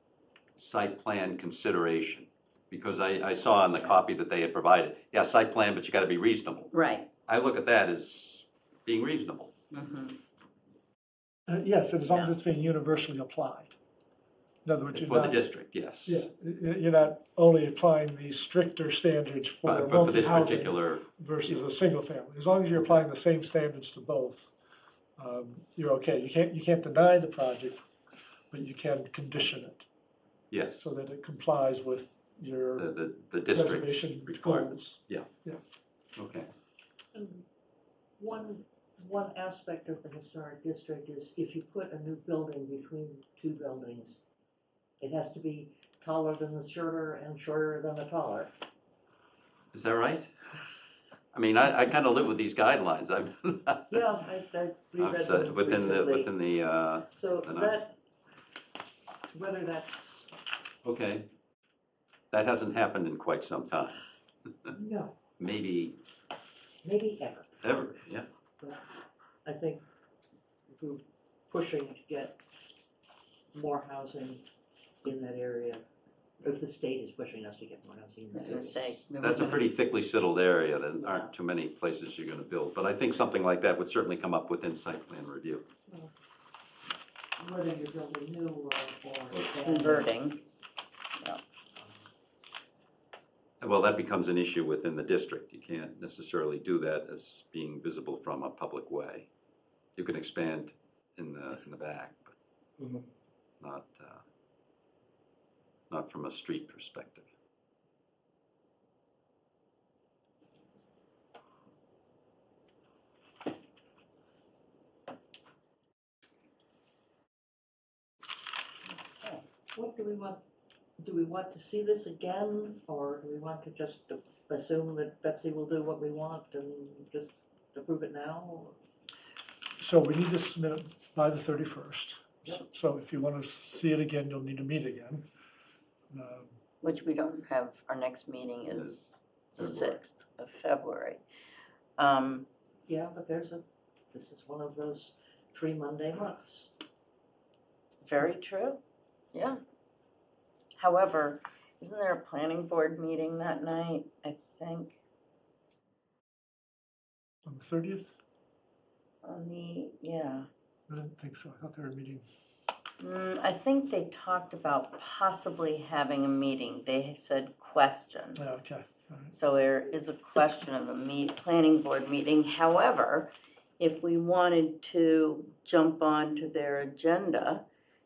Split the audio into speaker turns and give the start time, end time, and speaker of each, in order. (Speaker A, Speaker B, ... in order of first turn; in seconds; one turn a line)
Speaker A: 0.6-6.7
Speaker B: 6.7-7.1
Speaker A: 7.3-9.5
Speaker B: 9.7-10.2
Speaker C: 11.5-13.7
Speaker C: 14.6-15.4
Speaker A: 14.9-16.3
Speaker C: 16.1-24.5
Speaker A: 19.6-21.8
Speaker C: 25.2-27.8
Speaker C: 28.5-29.9
Speaker A: 30.5-30.9
Speaker C: 30.8-32.9
Speaker A: 32.8-35.3
Speaker C: 33.5-35.6
Speaker A: 36.2-36.5
Speaker D: 37.1-37.4
Speaker D: 38.2-44.2
Speaker D: 45.0-48.5
Speaker A: 49.7-50.3
Speaker A: 51.3-54.0
Speaker D: 53.9-56.3
Speaker A: 55.0-57.8
Speaker D: 57.1-57.9
Speaker D: 59.3-60.3
Speaker A: 60.8-61.3
Speaker A: 62.3-64.0
Speaker D: 64.7-65.2
Speaker A: 65.4-66.0
Speaker D: 66.8-67.5
Speaker A: 67.6-68.3
Speaker D: 69.4-69.8
Speaker D: 70.7-72.4
Speaker D: 73.5-74.4
Speaker D: 75.0-75.8
Speaker D: 76.4-79.1
Speaker B: 78.3-79.7
Speaker A: 79.2-85.6
Speaker D: 87.4-90.1
Speaker B: 89.4-90.4
Speaker A: 93.6-99.3
Speaker A: 100.0-102.3
Speaker D: 102.8-103.1
Speaker A: 103.6-104.2
Speaker A: 105.9-107.3
Speaker D: 119.7-120.4
Speaker D: 121.0-128.8
Speaker C: 129.8-135.2
Speaker C: 136.1-136.6
Speaker B: 136.8-139.0
Speaker A: 138.7-140.0
Speaker B: 139.5-141.2
Speaker B: 142.0-142.5
Speaker D: 142.9-146.7
Speaker B: 148.0-148.8
Speaker B: 149.3-149.6
Speaker B: 150.8-155.0
Speaker C: 157.4-158.1
Speaker B: 159.2-160.5
Speaker C: 160.9-162.2
Speaker B: 163.0-168.4
Speaker C: 168.4-169.3
Speaker B: 169.3-177.6